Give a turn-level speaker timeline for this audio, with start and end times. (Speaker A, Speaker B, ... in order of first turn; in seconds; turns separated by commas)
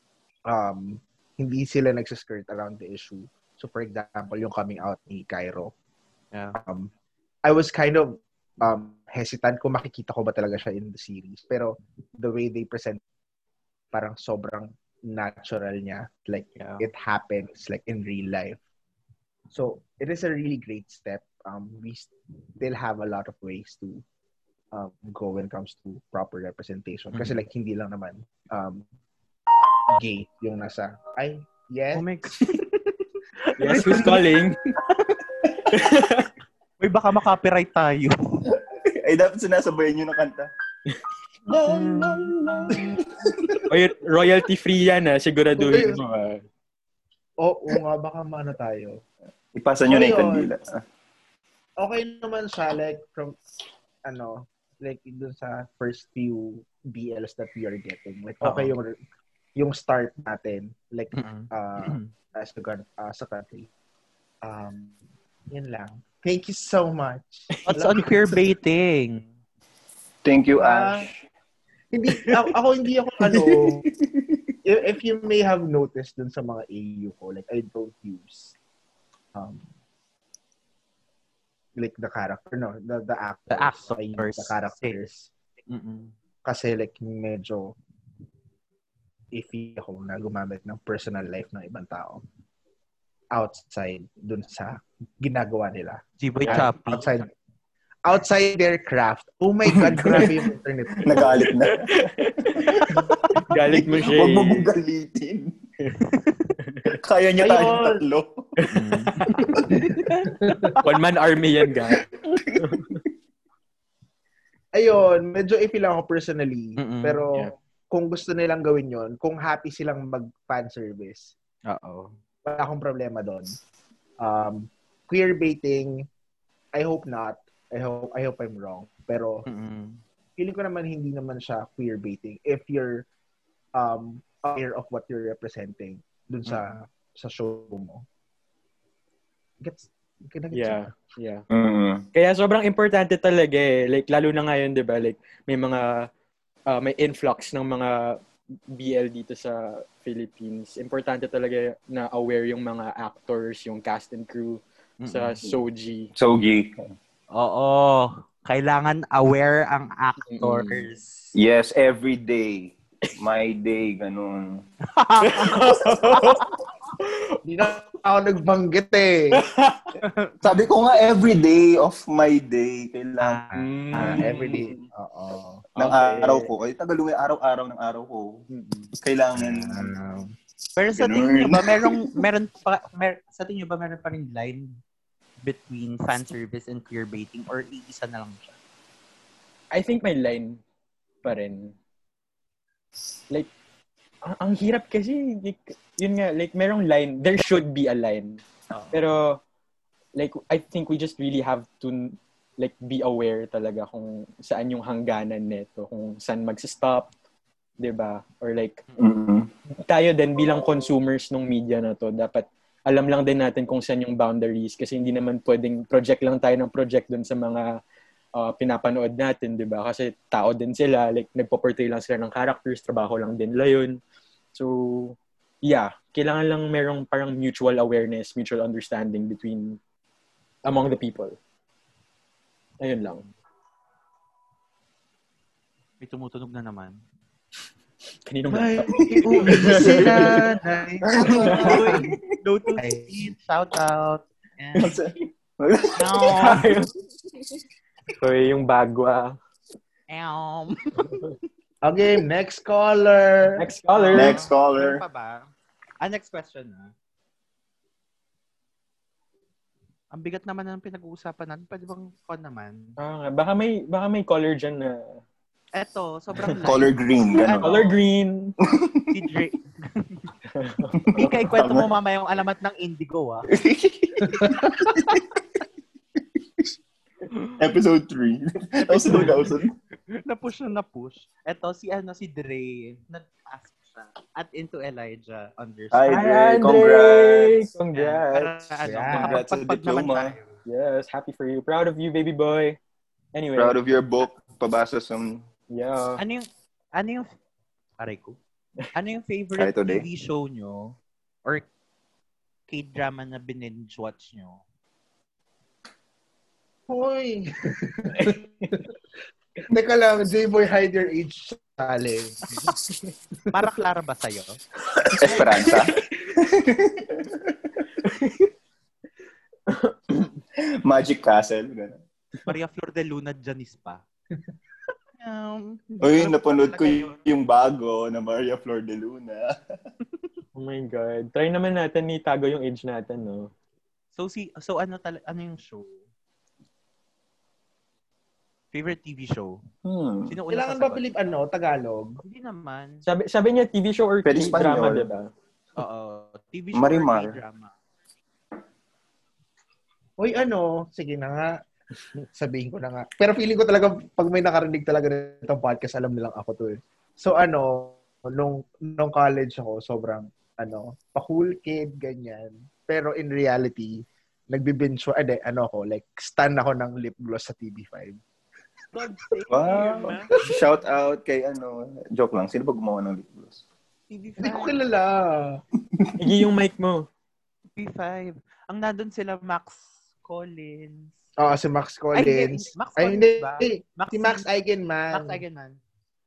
Speaker A: 0.5-5.7, Speaker B: 6.3-6.6, Speaker A: 6.5-6.9, Speaker A: 7.4-13.0, Speaker A: 13.9-18.6, Speaker B: 16.6-16.8, Speaker A: 19.5-24.0, Speaker A: 24.7-28.9, Speaker B: 27.1-27.4, Speaker A: 29.9-32.1, Speaker B: 31.9-32.9, Speaker C: 33.6-34.6, Speaker B: 33.7-34.2, Speaker A: 33.7-34.2, Speaker C: 35.7-36.3, Speaker B: 36.8-38.4, Speaker D: 38.6-40.5, Speaker D: 41.5-43.6, Speaker C: 41.7-42.3, Speaker A: 42.7-43.0, Speaker C: 43.7-46.4, Speaker A: 45.6-46.0, Speaker A: 47.4-49.0, Speaker D: 49.5-50.8, Speaker A: 49.9-50.5, Speaker A: 51.8-53.4, Speaker A: 54.0-59.0, Speaker B: 58.4-58.7, Speaker A: 59.5-63.7, Speaker B: 61.1-62.1, Speaker A: 64.4-65.0, Speaker A: 65.5-68.1, Speaker B: 67.7-69.2, Speaker D: 70.2-71.1, Speaker A: 70.5-71.1, Speaker A: 71.9-73.9, Speaker A: 74.6-78.5, Speaker A: 79.3-79.7, Speaker A: 81.8-85.3, Speaker B: 83.5-85.0, Speaker B: 85.7-86.1, Speaker A: 86.5-87.8, Speaker A: 89.3-92.2, Speaker A: 93.3-97.3, Speaker B: 96.2-97.2, Speaker C: 96.4-96.7, Speaker A: 98.0-101.5, Speaker D: 99.7-100.3, Speaker D: 101.0-103.0, Speaker C: 101.7-104.7, Speaker D: 103.7-105.6, Speaker B: 106.1-106.5, Speaker C: 106.6-106.9, Speaker D: 106.8-108.5, Speaker A: 107.4-108.0, Speaker C: 108.6-109.4, Speaker B: 108.7-110.8, Speaker A: 109.7-110.8, Speaker C: 110.8-112.1, Speaker D: 112.1-112.8, Speaker C: 112.6-113.0, Speaker A: 114.7-121.3, Speaker B: 116.8-117.3, Speaker B: 121.7-122.1, Speaker A: 122.5-123.6, Speaker A: 124.2-126.1, Speaker A: 126.7-129.4, Speaker B: 129.5-130.0, Speaker A: 130.4-133.1, Speaker A: 133.8-138.0, Speaker A: 139.6-140.9, Speaker C: 140.5-141.4, Speaker D: 141.5-142.1, Speaker C: 142.1-146.1, Speaker C: 146.7-156.1, Speaker B: 155.0-155.4, Speaker D: 156.2-156.9, Speaker B: 157.3-161.3, Speaker C: 160.3-160.8, Speaker D: 161.3-164.7, Speaker B: 164.9-166.4, Speaker C: 165.2-167.4, Speaker A: 167.4-169.4, Speaker C: 169.4-169.9, Speaker B: 170.0-170.3, Speaker D: 170.4-174.6, Speaker B: 173.2-173.7, Speaker C: 173.5-174.7, Speaker A: 173.9-175.7, Speaker C: 175.8-176.5, Speaker D: 175.8-178.4, Speaker C: 178.5-178.9, Speaker D: 178.9-179.9, Speaker A: 179.4-180.2, Speaker B: 180.8-184.8, Speaker D: 180.9-182.1, Speaker B: 185.4-188.6, Speaker C: 189.7-190.6, Speaker C: 191.2-191.8, Speaker C: 194.2-198.4, Speaker B: 198.7-199.0, Speaker C: 198.9-199.4, Speaker C: 200.2-207.1, Speaker C: 207.8-208.8, Speaker D: 209.0-209.5, Speaker C: 209.7-217.8, Speaker C: 218.4-224.0, Speaker C: 224.5-229.8, Speaker C: 230.7-231.4, Speaker C: 232.8-233.3, Speaker B: 236.0-237.0, Speaker C: 238.3-240.3, Speaker A: 238.5-242.0, Speaker D: 239.0-240.3, Speaker D: 241.1-242.2, Speaker C: 241.2-241.8, Speaker B: 241.2-245.0, Speaker A: 242.8-243.3, Speaker D: 244.8-246.7, Speaker B: 246.0-246.7, Speaker C: 246.3-246.9, Speaker C: 248.2-249.4, Speaker B: 250.1-251.2, Speaker A: 251.8-253.7, Speaker C: 253.6-254.4, Speaker B: 253.9-255.5, Speaker D: 254.1-255.0, Speaker B: 256.0-256.9, Speaker B: 260.1-262.9, Speaker C: 263.0-265.2, Speaker B: 265.8-267.9, Speaker D: 266.6-267.9, Speaker C: 267.6-268.6, Speaker D: 268.6-269.1, Speaker B: 269.1-270.3, Speaker C: 270.5-271.4, Speaker D: 271.0-271.9, Speaker B: 271.1-273.5, Speaker D: 273.5-275.3, Speaker D: 277.6-279.7, Speaker B: 278.8-279.6, Speaker B: 280.1-286.1, Speaker D: 285.9-287.6, Speaker C: 286.1-288.5, Speaker B: 287.9-290.6, Speaker A: 288.8-289.4, Speaker D: 289.2-290.4, Speaker C: 290.7-292.8, Speaker C: 293.3-293.8, Speaker D: 293.6-295.4, Speaker C: 295.7-296.2, Speaker B: 296.2-297.3, Speaker B: 298.0-298.4, Speaker B: 298.9-301.7, Speaker D: 299.6-300.1, Speaker B: 302.7-304.6, Speaker A: 306.9-308.4, Speaker C: 308.2-308.8, Speaker A: 309.7-312.6, Speaker C: 312.6-312.9, Speaker B: 313.5-314.6, Speaker D: 315.1-317.6, Speaker C: 315.4-315.8, Speaker C: 318.0-318.5, Speaker C: 319.7-320.0, Speaker D: 320.6-322.0, Speaker B: 322.5-324.0, Speaker B: 325.2-327.2, Speaker D: 326.0-329.6, Speaker C: 330.6-333.5, Speaker B: 334.2-336.0, Speaker B: 338.7-339.6, Speaker D: 339.9-340.4, Speaker B: 340.3-341.0, Speaker A: 340.5-342.2, Speaker B: 342.2-343.0, Speaker C: 343.1-345.3, Speaker D: 344.2-345.1, Speaker B: 345.8-347.7, Speaker D: 346.7-347.4, Speaker A: 350.2-351.6, Speaker A: 352.3-368.2, Speaker B: 368.9-370.4, Speaker D: 369.5-373.6, Speaker B: 374.1-374.8, Speaker A: 374.4-375.6, Speaker C: 376.2-377.1, Speaker B: 377.8-381.1, Speaker A: 381.4-385.4, Speaker B: 382.1-384.5, Speaker B: 385.1-385.8